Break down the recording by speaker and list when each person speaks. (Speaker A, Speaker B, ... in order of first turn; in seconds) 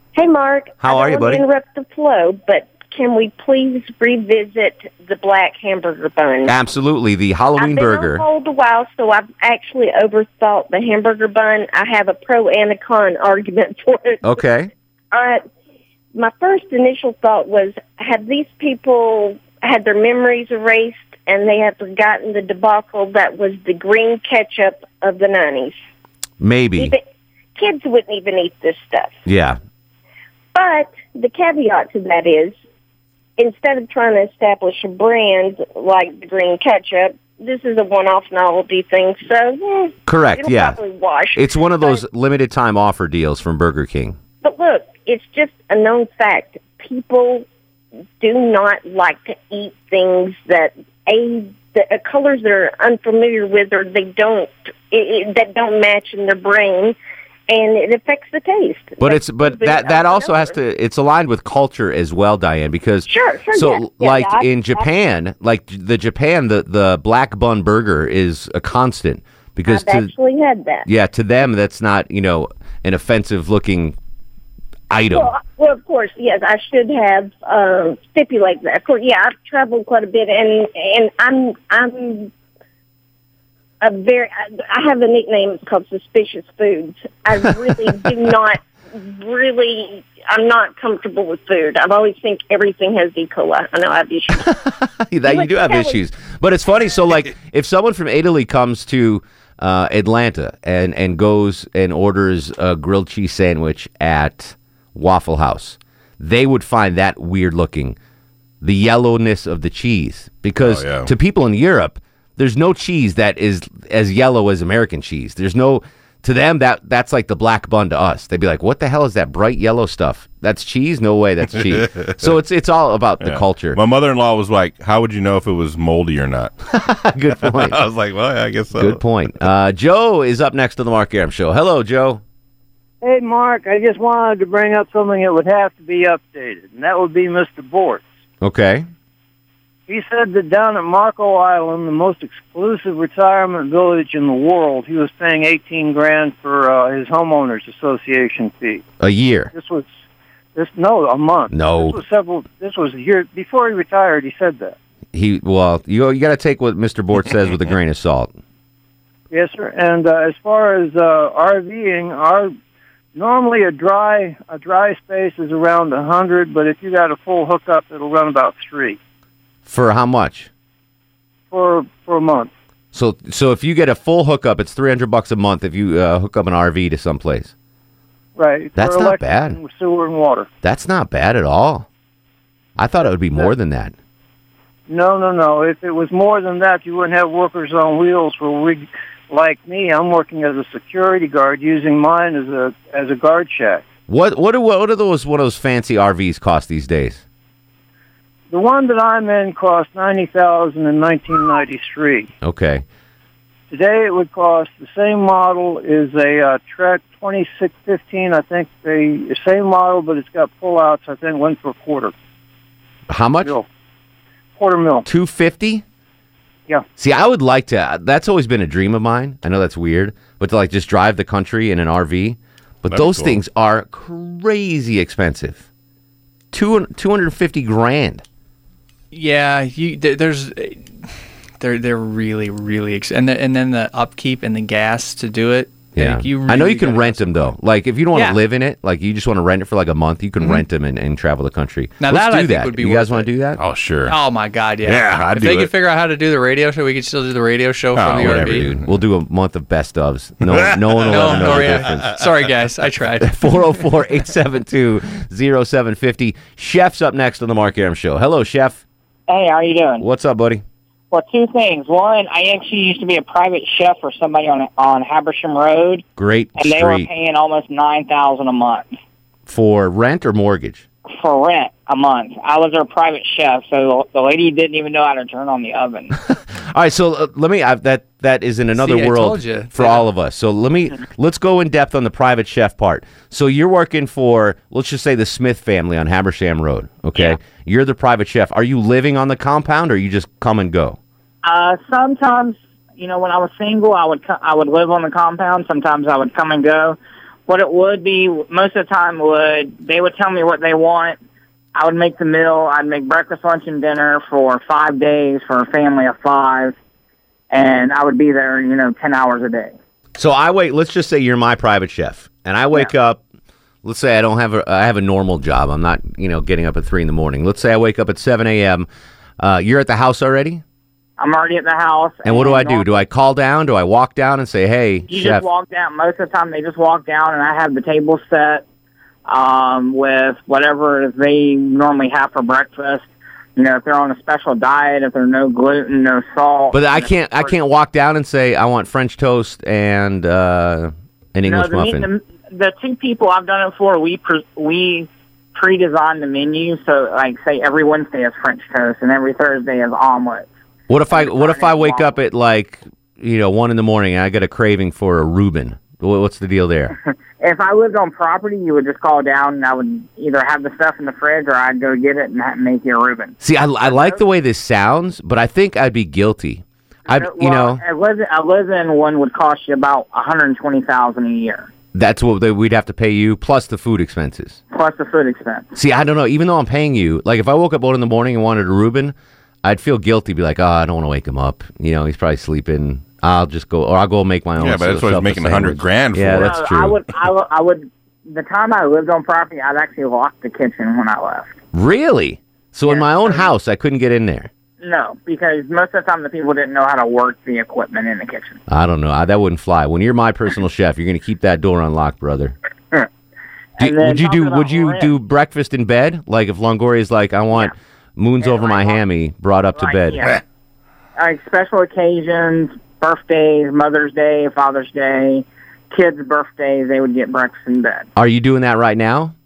Speaker A: 0.1-6.5, 7.6-14.4, 15.1-15.4, 16.1-25.8, 26.8-27.0, 27.6-29.2, 30.5-32.6, 33.4-42.0, 44.4-47.5, 48.2-57.0, 57.5-60.5, 63.0-64.9, 69.6-70.9, 75.1-82.3, 83.8-94.5, 95.2-96.0
Speaker B: 0.8-1.4, 6.5-8.2, 14.2-14.7, 26.4-26.9, 29.2-29.6, 40.0-40.8, 41.3-44.2, 59.0-70.1, 70.8-74.0, 74.9-75.3, 94.4-108.0, 108.6-123.8, 126.7-127.8, 128.8-132.2, 138.4-138.9, 149.0-149.5, 151.5-152.0, 155.1-158.3, 169.7-170.5, 172.9-177.5, 178.8-179.6, 180.6-181.9, 182.8-183.9, 194.1-197.2, 202.4-202.8, 213.1-213.6, 215.1-215.8, 217.0-225.6, 226.5-228.2, 235.9-243.6, 248.1-252.2, 253.2-258.8, 260.0-260.6, 266.2-267.1, 269.4-270.9, 276.3-291.0, 310.1-313.2, 313.8-318.9, 319.4-320.6, 322.2-325.5, 336.7-342.1, 350.9-356.9, 363.4-367.8, 371.9-374.6, 375.7-387.0, 391.7-394.5, 398.7-402.6, 403.8-410.3, 418.1-419.3
Speaker C: 110.6-111.1, 121.5-122.3, 123.2-126.5, 127.3-129.0, 222.9-223.4, 243.6-244.2, 244.8-245.7, 247.9-248.9, 250.5-252.1, 384.6-386.6
Speaker D: 133.0-138.0, 139.9-148.8, 149.5-149.9, 150.5-154.7, 159.3-162.5, 163.1-169.0, 171.5-172.5, 178.3-180.5, 184.9-193.8, 198.5-202.3, 203.7-212.1, 214.6-215.1
Speaker E: 229.1-237.5, 238.1-238.4, 242.0-243.3, 244.1-248.7, 251.1-253.8, 278.8-280.1
Speaker F: 259.3-260.0, 261.1-266.0, 266.6-268.9, 271.2-276.1, 291.4-301.2, 301.7-306.8, 307.5-309.7, 321.2-323.0, 325.1-328.6, 329.3-337.5, 341.4-350.5, 351.1-352.1, 357.4-364.2, 367.1-371.7, 374.7-375.7, 386.3-391.5, 392.9-393.5, 394.8-398.6, 403.8-405.1, 408.4-409.0, 409.8-410.4, 411.2-418.1